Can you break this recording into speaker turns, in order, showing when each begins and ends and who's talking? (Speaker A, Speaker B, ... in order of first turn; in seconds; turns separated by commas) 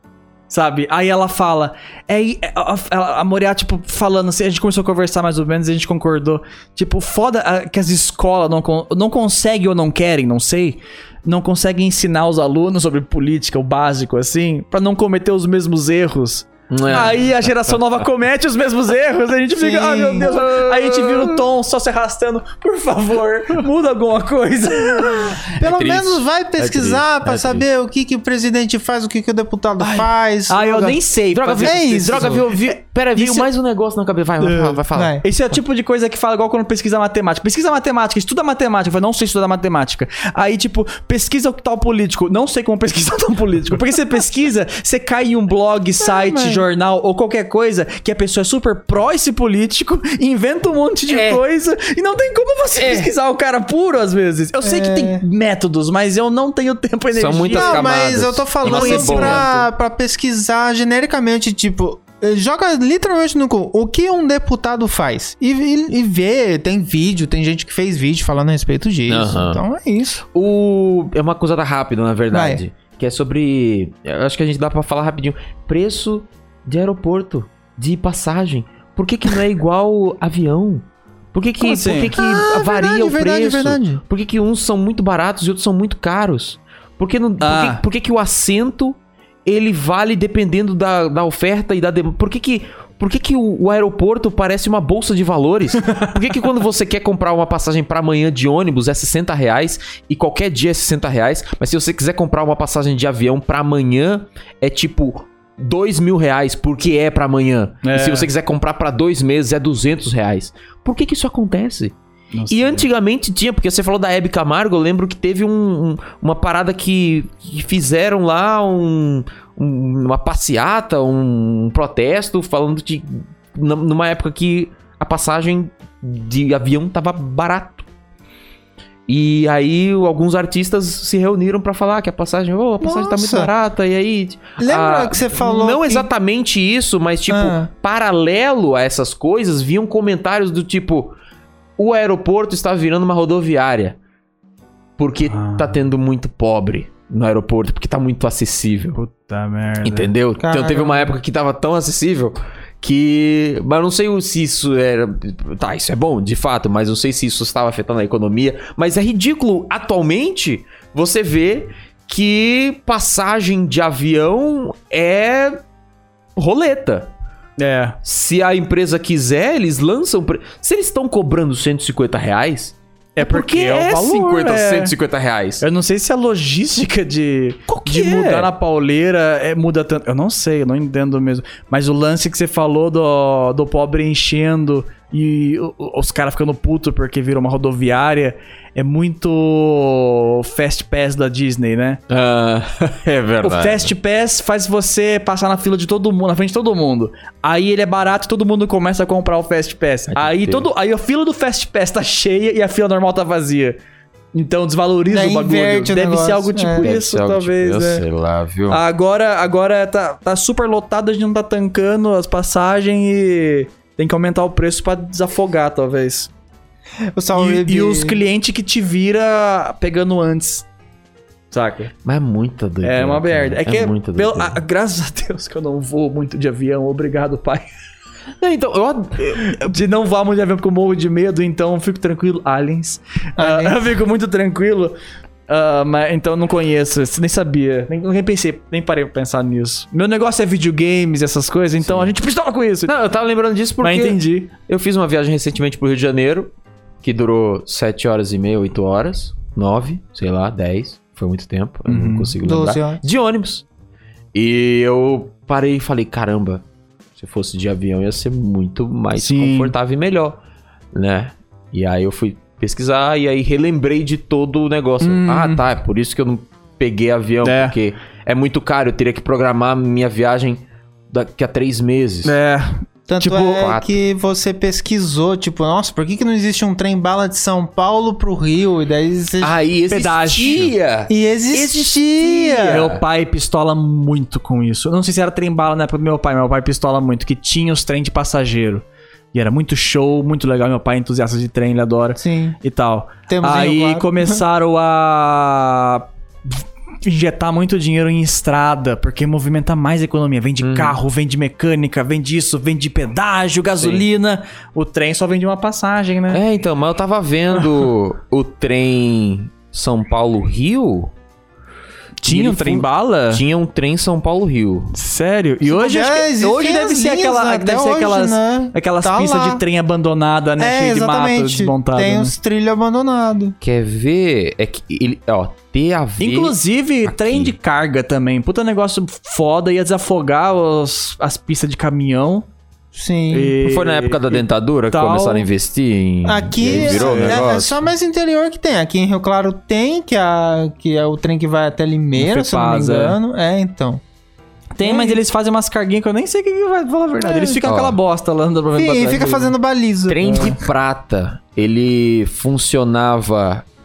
Speaker A: 0.5-25.4, Speaker B: 16.7-17.7, Speaker C: 19.6-20.3, Speaker B: 20.2-21.4, Speaker B: 25.5-27.6, Speaker C: 25.6-31.0, Speaker B: 29.8-30.1, Speaker A: 30.5-33.5, Speaker B: 31.3-35.2, Speaker C: 31.6-32.4, Speaker A: 34.4-57.9, Speaker C: 34.9-35.2, Speaker C: 46.0-46.6, Speaker B: 51.1-51.4, Speaker B: 52.8-53.1, Speaker C: 54.6-55.2, Speaker B: 57.1-59.4, Speaker C: 57.5-70.2, Speaker A: 58.6-59.7, Speaker B: 69.1-69.6, Speaker B: 70.3-111.9, Speaker C: 72.3-72.6, Speaker A: 81.6-82.1, Speaker C: 82.1-84.0, Speaker A: 87.4-87.8, Speaker A: 95.8-96.1, Speaker A: 107.8-108.3, Speaker A: 112.3-112.9, Speaker B: 112.5-127.8, Speaker B: 129.1-141.1, Speaker C: 132.8-133.5, Speaker C: 134.6-136.1, Speaker C: 137.3-137.7, Speaker B: 141.8-144.0, Speaker B: 145.0-149.0, Speaker A: 145.3-145.8, Speaker A: 148.9-150.1, Speaker B: 149.8-165.6, Speaker C: 150.4-151.1, Speaker B: 166.4-167.1, Speaker A: 167.6-168.0, Speaker B: 168.0-175.6, Speaker A: 173.2-174.9, Speaker A: 175.6-192.0, Speaker B: 177.7-178.5, Speaker B: 192.1-193.9, Speaker A: 193.4-203.8, Speaker B: 200.1-200.7, Speaker A: 204.3-208.0, Speaker C: 205.1-206.9, Speaker B: 206.8-208.8, Speaker A: 208.7-216.3, Speaker C: 217.1-218.2, Speaker A: 217.3-220.7, Speaker A: 221.5-221.9, Speaker B: 222.0-224.6, Speaker A: 222.8-227.7, Speaker B: 228.4-229.7, Speaker A: 229.3-234.9, Speaker C: 233.4-233.8, Speaker A: 235.5-242.9, Speaker B: 241.8-242.1, Speaker B: 242.8-246.5, Speaker A: 243.8-244.5, Speaker B: 247.0-253.6, Speaker A: 251.9-252.3, Speaker C: 252.4-253.0, Speaker B: 254.3-256.6, Speaker B: 257.1-260.4, Speaker A: 259.1-259.7, Speaker B: 260.9-272.3, Speaker C: 265.0-265.6, Speaker A: 267.4-267.7, Speaker A: 272.2-273.6, Speaker C: 273.1-279.5, Speaker B: 273.4-273.9, Speaker B: 279.4-283.0, Speaker A: 279.9-280.7, Speaker C: 281.1-282.9, Speaker A: 282.6-306.4, Speaker C: 292.2-292.6, Speaker C: 293.3-294.4, Speaker B: 300.6-301.0, Speaker B: 303.7-304.1, Speaker B: 306.3-311.1, Speaker A: 312.2-313.4, Speaker B: 312.2-314.9, Speaker A: 314.9-322.3, Speaker C: 315.6-319.6, Speaker C: 320.6-323.5, Speaker B: 323.6-327.5, Speaker A: 326.2-332.5, Speaker C: 332.9-333.6, Speaker A: 333.3-335.5, Speaker B: 333.6-337.8, Speaker C: 336.2-344.0, Speaker A: 336.7-337.4, Speaker A: 342.1-343.2, Speaker A: 344.7-349.5, Speaker C: 344.8-345.2, Speaker C: 347.2-347.6, Speaker B: 347.6-348.0, Speaker C: 348.7-350.5, Speaker B: 350.1-353.6, Speaker A: 350.3-350.5